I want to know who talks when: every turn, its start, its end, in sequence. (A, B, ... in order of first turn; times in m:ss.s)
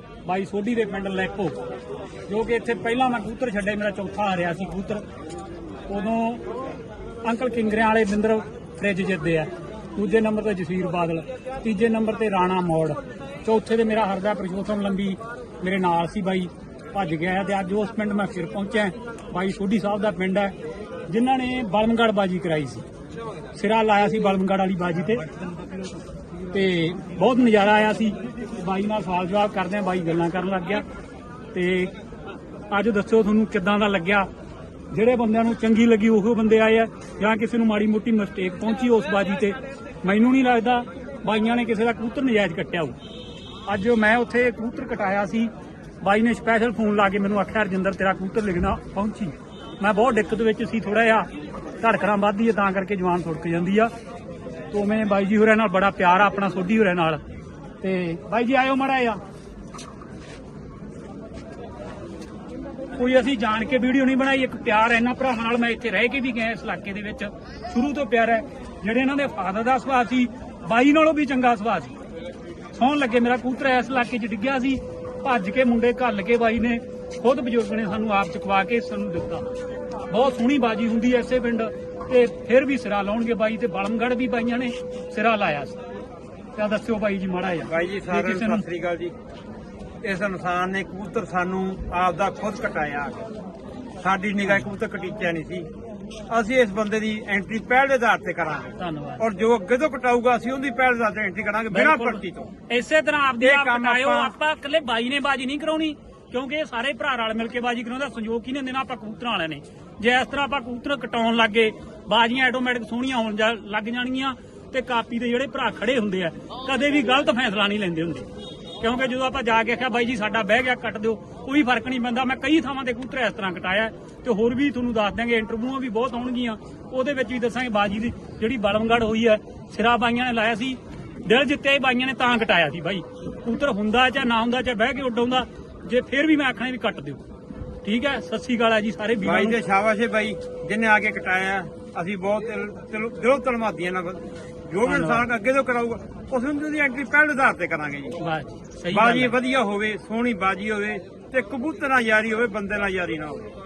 0:00.2-0:01.6 A
0:02.3-0:05.0 A
0:05.9-0:06.5 A
0:07.2-0:20.6 A
0:21.1-0:22.8 A
0:23.5-0:25.3 A
0:26.5-0:30.8 A
0:31.5-0:31.9 A
0:32.7-0:34.3 A
0:34.9-0:43.0 A
0:43.7-0:53.9 A
0:54.7-0:57.2 A
0:57.8-0:59.2 A
1:02.9-1:12.0 A
1:12.7-1:19.5 A
1:20.1-1:25.8 A
1:26.6-1:28.6 A
1:27.7-1:29.1 B
1:30.0-1:33.2 B
1:34.0-1:35.7 B
1:36.3-1:42.5 B
1:38.8-1:39.2 A
1:41.7-1:58.3 A
1:43.4-1:44.4 B
1:58.8-2:17.2 A
2:17.8-2:19.6 A
2:19.2-2:28.2 B
2:24.8-2:25.2 A
2:28.2-2:29.4 A
2:28.9-2:33.5 B